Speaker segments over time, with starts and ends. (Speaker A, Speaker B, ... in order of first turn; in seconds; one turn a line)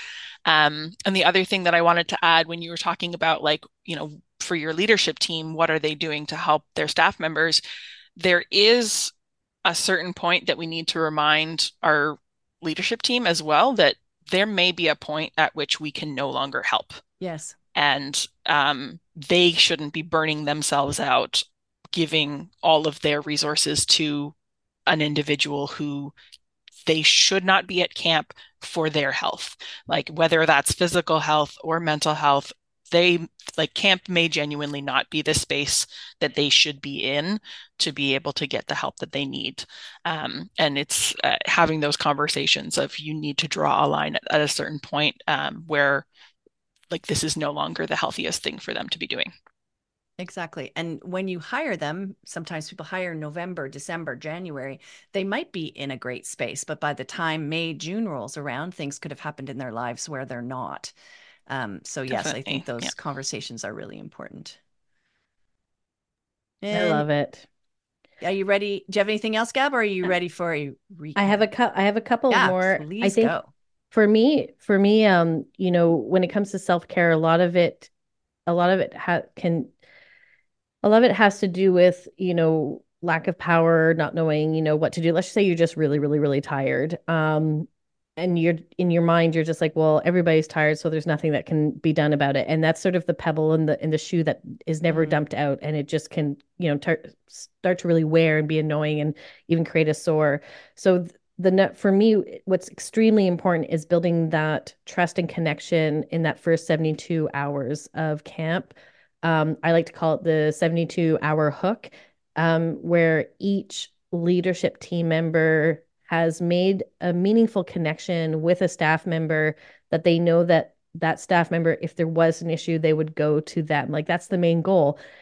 Speaker A: 0.5-7.6
Speaker A: 8.2-9.1
Speaker A: 9.6-17.0
Speaker B: 17.2-17.5
Speaker A: 17.7-21.4
Speaker A: 21.9-24.3
Speaker A: 24.9-26.1
Speaker A: 26.9-46.1
Speaker A: 46.9-49.3
Speaker B: 50.2-60.9
Speaker B: 61.5-64.6
Speaker A: 62.1-62.9
Speaker B: 66.6-67.0
Speaker C: 66.7-67.4
Speaker B: 68.2-71.5
Speaker C: 71.2-73.3
Speaker B: 72.3-73.5
Speaker C: 73.9-77.9
Speaker C: 78.5-79.7
Speaker C: 80.8-108.7
Speaker B: 94.9-95.2
Speaker C: 109.2-125.0